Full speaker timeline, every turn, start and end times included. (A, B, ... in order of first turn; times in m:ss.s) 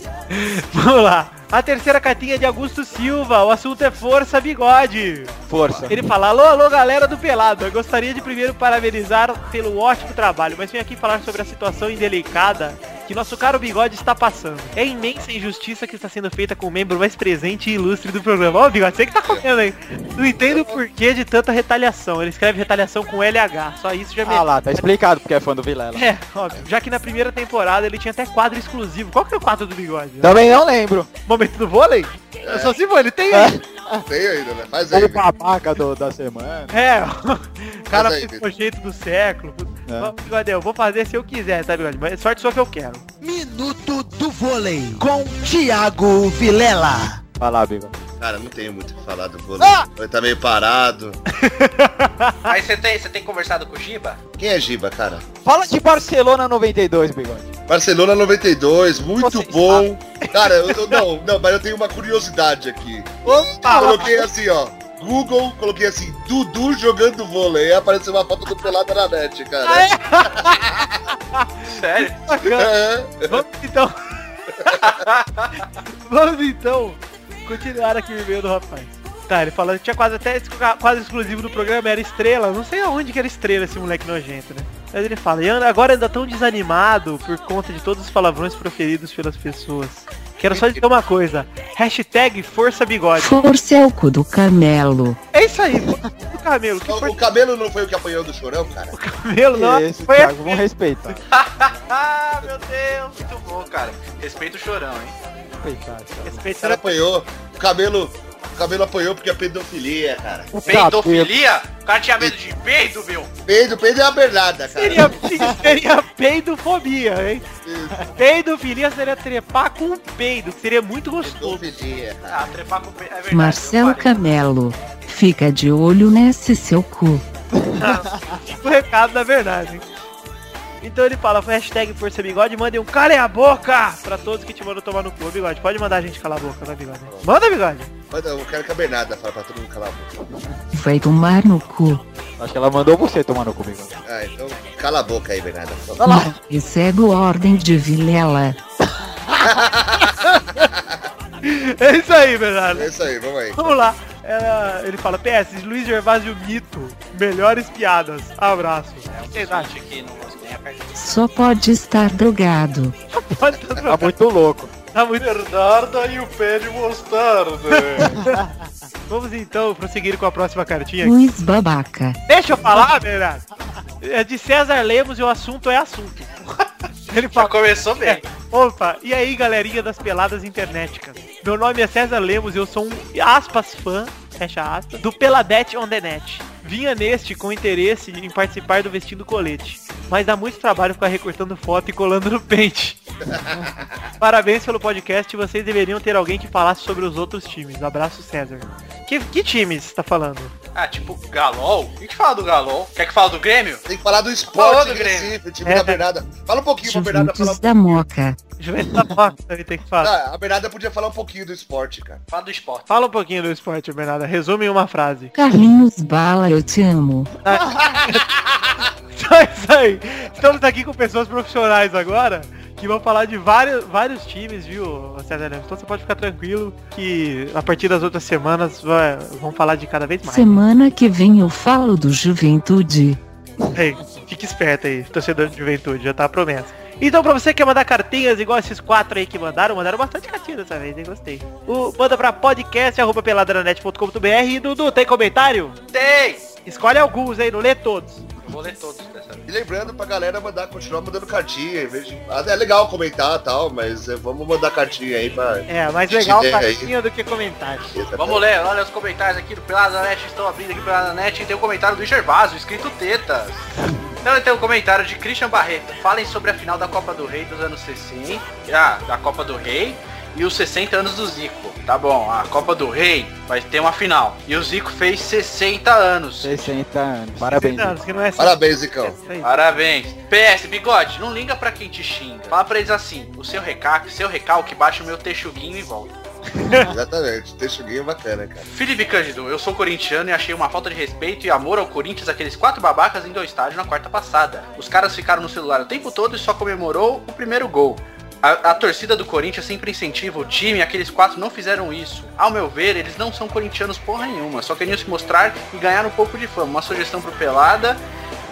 0:00.3-0:05.3 A
0:05.5-0:06.0 B
0:05.9-0:24.8 A
0:20.5-0:20.8 C
0:24.2-0:26.0 B
0:26.0-0:30.6 A
0:30.2-0:31.1 B
0:31.3-0:33.6 A
0:32.4-0:32.8 C
0:33.3-0:34.0 B
0:34.1-0:35.3 C
0:34.9-0:36.7 B
0:36.7-0:43.1 A
0:37.9-0:38.5 C
0:39.9-0:40.1 B
0:43.2-0:47.2 D
0:47.4-0:47.9 B
0:48.2-0:51.2 C
0:49.6-0:49.9 B
0:51.3-0:52.5 A
0:52.5-0:54.2 E
0:54.4-0:55.2 C
0:55.4-0:57.5 B
0:57.7-1:10.9 C
0:59.2-0:59.9 B
1:00.2-1:01.0 A
1:03.3-1:04.2 A
1:03.6-1:04.1 B
1:09.6-1:14.1 A
1:11.6-1:12.2 E
1:12.4-1:13.4 C
1:14.6-1:15.0 C
1:14.8-1:15.7 E
1:15.9-1:33.4 A
1:30.5-1:30.8 C
1:33.2-1:35.2 F
1:35.3-1:37.2 A
1:36.9-1:38.9 C
1:38.9-1:40.6 A
1:39.5-1:41.2 B
1:41.3-1:45.1 E
1:45.6-1:46.5 B
1:46.2-1:46.9 A
1:46.6-1:50.5 C
1:50.5-1:51.3 B
1:50.6-1:53.3 E
1:53.4-1:55.2 C
1:54.7-1:57.4 A
1:55.3-1:55.7 B
1:57.6-1:58.1 C
1:58.2-2:01.7 A
2:01.2-2:02.4 C
2:02.3-2:04.2 E
2:03.3-2:07.2 F
2:07.6-2:08.4 B
2:07.8-2:09.9 A
2:10.8-2:17.9 A
2:18.1-2:20.1 C
2:20.7-2:22.0 F
2:22.4-2:24.0 B
2:24.0-2:26.1 C
2:26.0-2:26.4 B
2:26.2-2:28.6 F
2:29.4-2:31.0 C
2:30.0-2:30.6 A
2:31.4-2:32.9 A
2:32.7-2:33.8 C
2:33.6-2:39.7 A
2:39.1-2:40.8 E
2:41.0-2:42.9 F
2:43.1-2:44.1 A
2:43.8-2:44.7 B
2:44.9-2:45.3 A
2:45.2-2:48.1 E
2:47.7-2:48.4 A
2:48.0-2:48.4 B
2:49.1-2:51.1 A
2:51.0-2:52.2 F
2:52.3-2:53.4 A
2:54.0-2:56.4 A
2:57.1-2:57.5 A
2:57.3-2:58.2 E
2:58.0-3:13.0 A
3:13.4-3:13.9 C
3:14.2-3:20.5 A
3:20.7-3:23.8 E
3:23.9-3:28.0 C
3:24.5-3:25.4 E
3:25.6-3:26.0 A
3:26.8-3:28.4 F
3:28.6-3:30.1 A
3:30.0-3:32.2 C
3:32.3-3:32.9 E
3:32.9-3:35.3 A
3:35.4-3:37.3 F
3:37.4-3:50.6 A
3:50.3-3:53.2 F
3:53.7-4:05.8 A
4:05.9-4:06.4 E
4:06.7-4:08.2 A
4:08.4-4:09.5 E
4:09.5-4:16.9 C
4:15.7-4:17.9 A
4:17.9-4:18.4 C
4:18.2-4:23.7 E
4:24.2-4:36.7 E
4:36.4-4:38.0 B
4:37.4-4:39.5 A
4:38.4-4:39.2 C
4:39.4-4:46.1 E
4:46.9-4:48.7 C
4:48.7-5:08.0 E